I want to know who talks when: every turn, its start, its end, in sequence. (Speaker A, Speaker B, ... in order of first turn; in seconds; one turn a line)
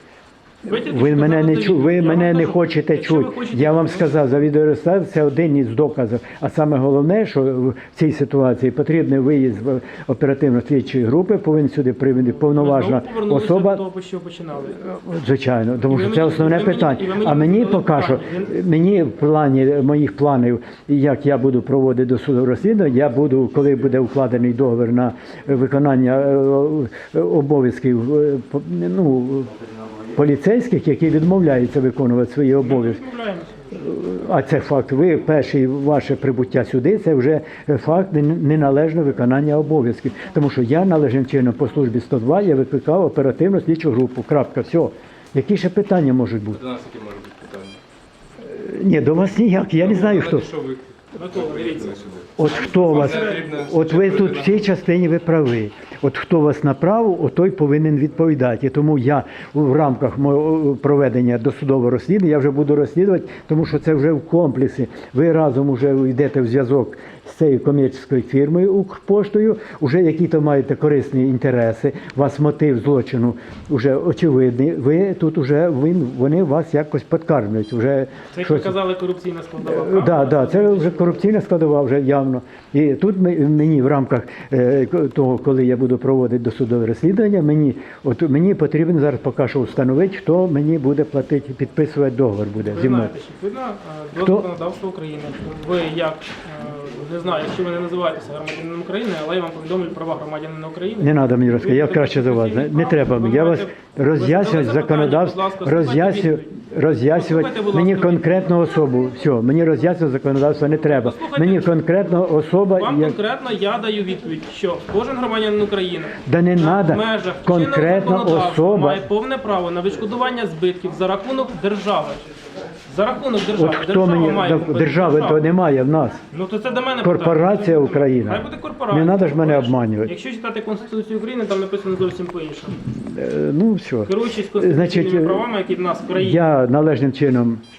Speaker A: 0.7-4.1
Speaker B: 0.7-13.8
Speaker A: 12.2-14.8
Speaker B: 14.8-29.6
Speaker A: 15.8-18.6
Speaker B: 30.1-33.0
Speaker A: 32.6-34.0
Speaker B: 33.7-46.6
Speaker C: 46.5-47.8
Speaker B: 48.4-50.5
Speaker C: 49.8-54.7
Speaker A: 51.1-52.0
Speaker B: 52.4-78.8
Speaker A: 52.7-53.5
Speaker A: 78.3-81.2
Speaker B: 79.6-93.1
Speaker A: 92.6-106.5
Speaker B: 94.2-94.5
Speaker B: 101.0-113.2
Speaker A: 107.1-108.5
Speaker A: 110.8-111.8
Speaker A: 112.8-122.2
Speaker B: 116.2-119.0
Speaker A: 122.9-125.4
Speaker B: 123.5-126.2
Speaker A: 126.3-132.8
Speaker B: 127.0-130.1
Speaker B: 132.8-135.5
Speaker A: 134.1-136.4
Speaker B: 136.1-137.6